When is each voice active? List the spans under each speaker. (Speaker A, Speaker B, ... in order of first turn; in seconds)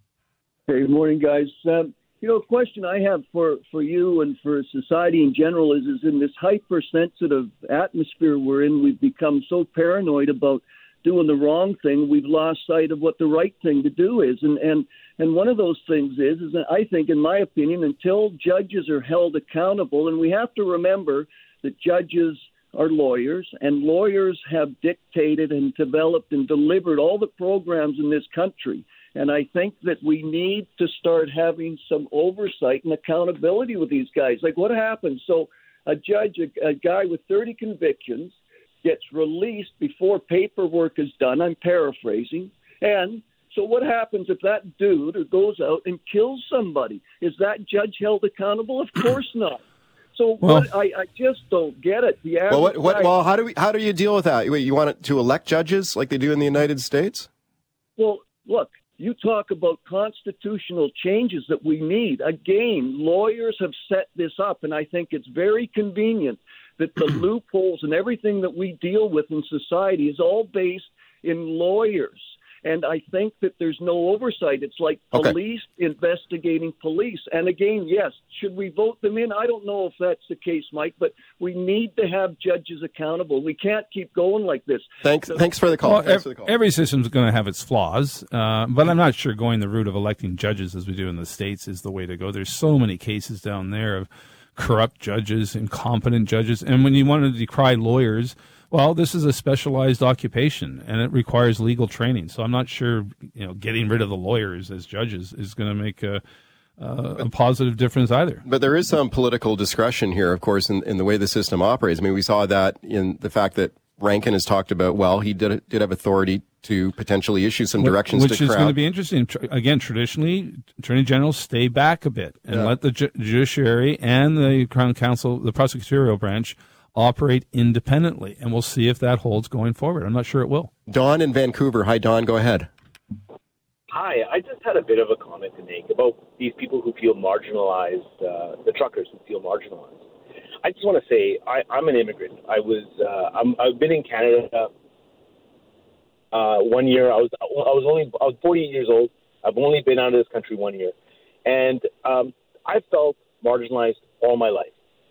Speaker A: 0.7-49.6, 50.1-53.1, 58.0-85.4
Speaker B: 50.4-50.7, 85.8-106.2, 106.8-108.4, 117.8-130.7
Speaker C: 52.5-57.3, 85.0-86.5, 108.5-118.8, 130.9-132.7
Speaker D: 133.9-140.0, 140.6-144.7, 146.3-154.8